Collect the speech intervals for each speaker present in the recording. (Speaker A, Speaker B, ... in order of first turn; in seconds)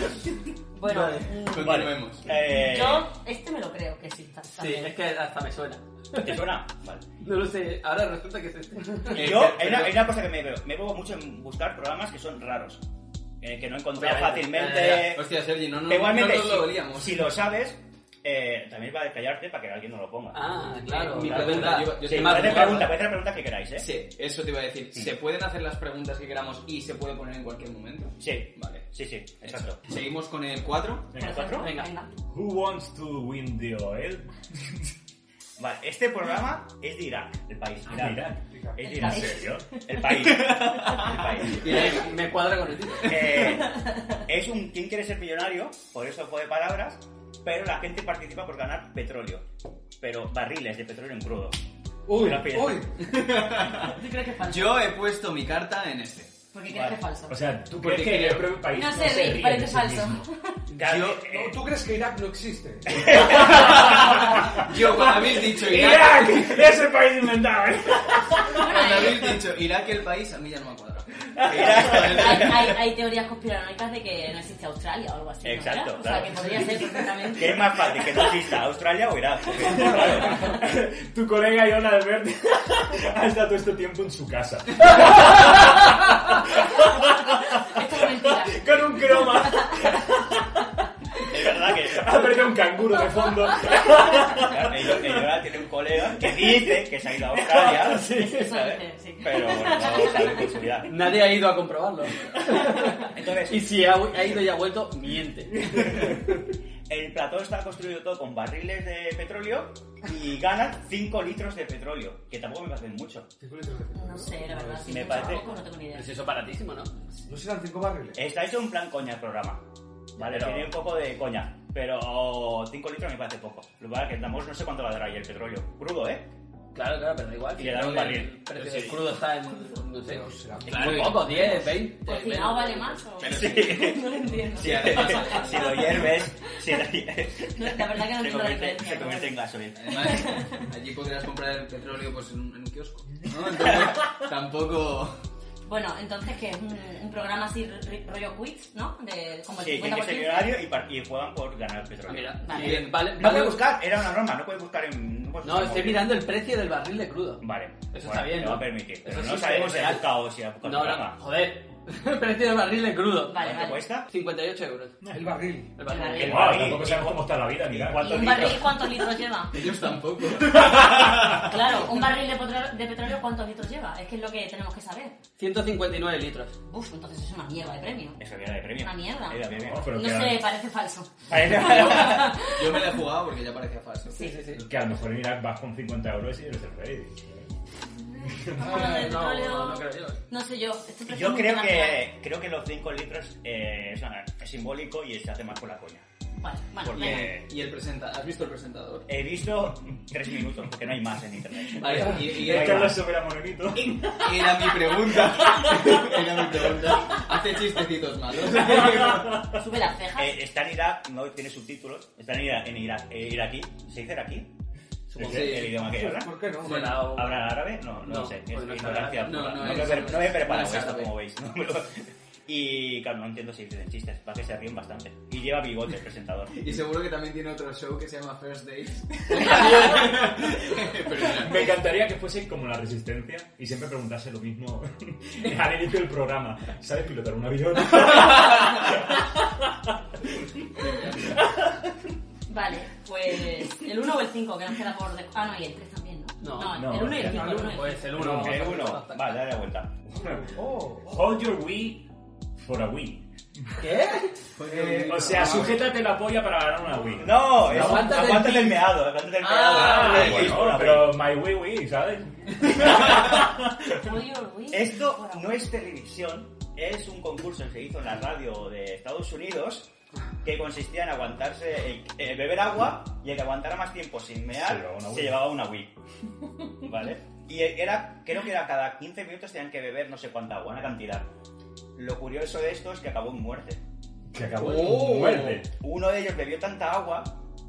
Speaker A: 0.8-4.9, 31.2-32.1, 38.9-40.1, 43.5-44.2, 53.8-54.9, 56.5-57.4, 58.6-60.6, 68.5-69.3, 72.0-77.9, 87.5-89.9, 93.0-93.5, 97.7-100.6, 113.9-116.1, 131.9-136.6, 137.5-139.3, 139.9-140.7, 145.7-150.6, 152.4-152.8, 163.3-163.8, 165.8-166.8, 168.0-169.6, 170.6-175.2, 176.7-178.2, 178.8-182.9, 184.1-184.5, 188.1-192.1, 196.4-197.4, 209.4-210.4, 242.5-248.1, 263.2-265.6
Speaker B: 0.9-1.3, 4.5-6.4, 7.2-9.5, 14.0-15.1, 20.3-22.9, 31.6-31.9, 41.6-43.4, 97.5-98.6, 100.9-105.9, 115.9-116.9, 120.2-120.6, 126.7-133.0, 152.1-153.6, 155.4-165.0, 165.8-166.5, 175.4-176.6, 184.1-184.6, 188.6-190.2, 215.1-215.6, 216.6-220.0, 229.4-230.1, 246.4-249.4, 253.8-254.4, 257.6-258.9
Speaker C: 1.2-2.3, 9.1-10.0, 15.0-17.3, 20.7-23.0, 23.8-28.9, 29.4-31.1, 40.1-42.1, 53.0-56.3, 57.8-58.6, 60.8-61.3, 63.3-66.6, 68.6-72.8, 130.7-131.4, 133.2-136.1, 139.8-145.2, 152.5-153.1, 169.5-171.5, 181.5-184.3, 196.9-199.1, 201.8-203.0, 204.0-209.5, 215.2-215.8, 216.6-217.1, 219.2-221.1, 226.5-231.8, 240.8-241.3, 254.6-255.8, 259.4-260.8, 284.6-285.6
Speaker D: 1.6-3.1, 6.2-7.0, 9.1-12.8, 13.4-15.2, 15.8-20.4, 21.1-23.9, 28.2-29.8, 31.1-31.7, 35.6-42.0, 43.0-49.5, 50.0-51.6, 52.1-52.9, 56.7-57.0, 60.7-61.6, 62.9-63.7, 71.5-72.7, 75.4-76.7, 77.3-80.6, 91.3-92.3, 94.4-101.0, 103.0-103.8, 105.7-106.2, 106.9-113.3, 114.9-115.5, 118.2-119.6, 120.2-126.2, 127.6-129.0, 130.7-131.1, 133.3-140.3, 149.6-156.1, 157.4-161.2, 163.4-164.1, 166.0-168.9, 178.2-180.0, 181.3-182.3, 191.1-196.1, 196.8-197.4, 199.1-203.0, 210.1-214.5, 215.2-216.4, 216.9-226.6, 248.2-250.4, 257.2-261.2, 262.8-263.1, 264.7-269.9, 270.4-276.0, 276.8-281.3, 281.9-283.8, 285.8-287.4
Speaker E: 31.2-31.5, 32.3-34.8, 37.9-39.7, 57.3-60.3, 63.1-68.7, 71.4-71.7, 79.7-95.4, 96.2-97.4, 165.0-165.3, 166.2-168.6, 179.6-180.5, 184.6-187.5, 188.3-188.9, 201.8-206.7, 209.0-209.3, 215.2-215.5, 219.6-220.0, 231.2-241.9, 246.7-248.7, 251.1-253.7, 255.1-258.2, 259.7-263.9, 274.5-275.4, 284.3-285.7
Speaker F: 38.5-38.9, 52.1-53.0, 61.3-63.1, 76.2-77.2, 113.4-115.4, 117.3-118.2, 130.0-131.3, 165.1-165.8, 215.9-216.9, 247.2-247.8, 250.2-251.3, 254.6-255.8